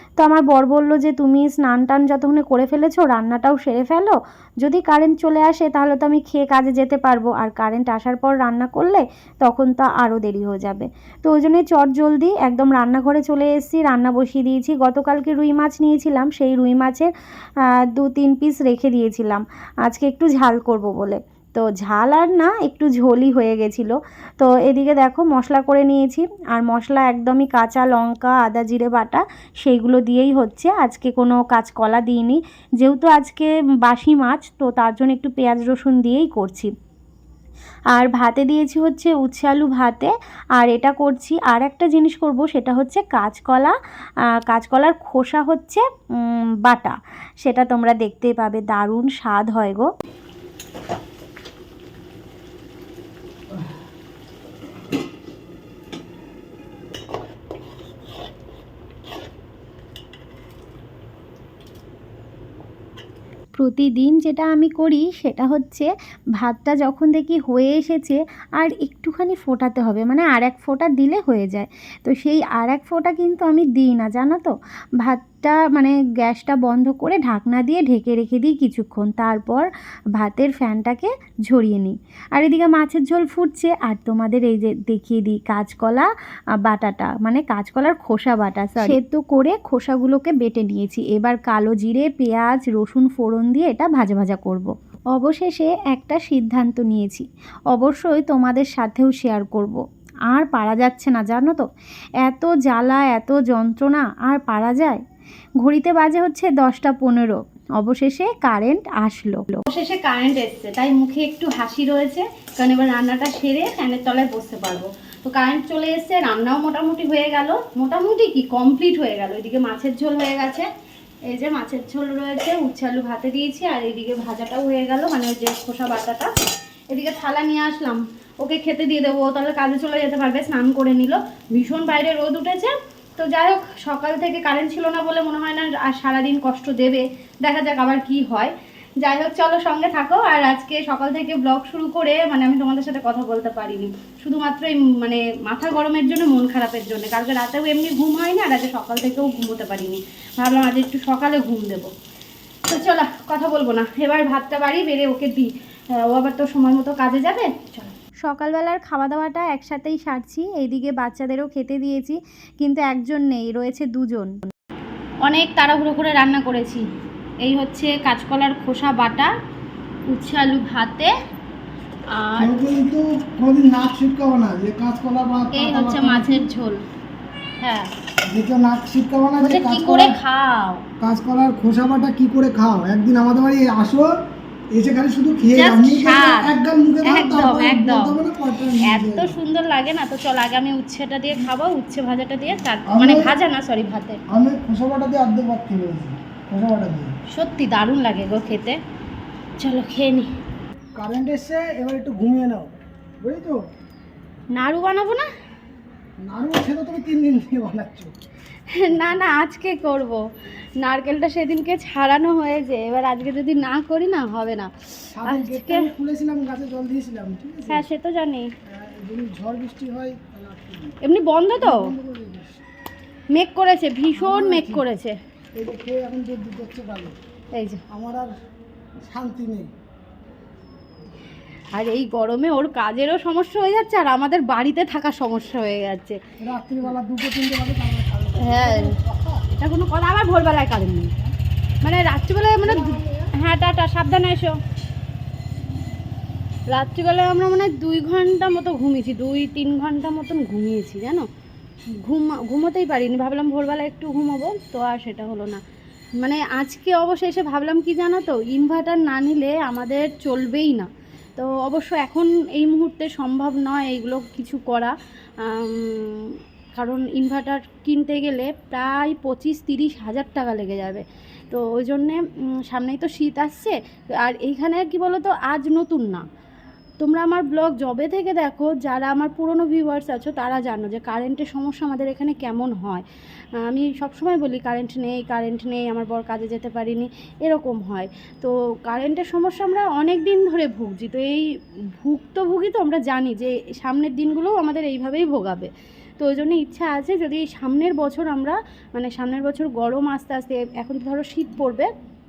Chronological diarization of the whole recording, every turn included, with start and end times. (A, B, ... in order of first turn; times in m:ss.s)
0:00.2-0:17.1 A
0:18.0-0:36.7 A
0:37.9-0:43.8 A
0:44.5-0:49.9 A
1:03.6-1:19.7 A
1:20.2-1:26.1 A
1:26.6-1:41.7 A
1:42.2-1:45.0 A
1:45.6-1:49.6 A
1:49.7-2:00.7 B
2:01.3-2:06.4 B
2:06.9-2:31.9 B
2:32.7-2:38.0 B
2:38.2-2:44.5 A
2:45.3-2:46.8 B
2:47.4-2:49.3 B
2:50.1-2:51.1 B
2:52.1-2:52.6 B
2:52.4-2:56.4 C
2:55.5-2:56.8 B
2:57.6-2:57.9 B
2:58.2-3:00.2 C
2:59.4-3:00.8 B
3:01.0-3:09.4 C
3:05.4-3:08.2 B
3:08.8-3:14.2 B
3:12.9-3:13.3 C
3:14.3-3:17.2 C
3:17.3-3:18.8 B
3:19.6-3:20.3 B
3:21.0-3:23.6 C
3:24.5-3:25.3 B
3:26.2-3:28.1 C
3:28.7-3:30.3 B
3:30.8-3:35.9 B
3:35.1-3:37.8 C
3:37.7-3:38.5 B
3:38.7-3:41.0 C
3:41.0-3:41.9 B
3:41.6-3:42.6 C
3:43.3-3:45.2 B
3:44.2-3:44.9 C
3:45.6-3:47.2 C
3:47.6-3:47.8 B
3:47.9-3:48.4 C
3:49.0-3:49.7 C
3:51.7-3:56.2 B
3:56.4-3:59.4 C
3:58.4-3:59.0 B
3:59.5-4:01.1 B
4:01.8-4:04.6 B
4:02.6-4:03.3 C
4:06.7-4:11.3 B
4:11.9-4:15.6 B
4:16.2-4:36.3 B
4:37.0-4:43.0 B
4:43.6-5:01.9 B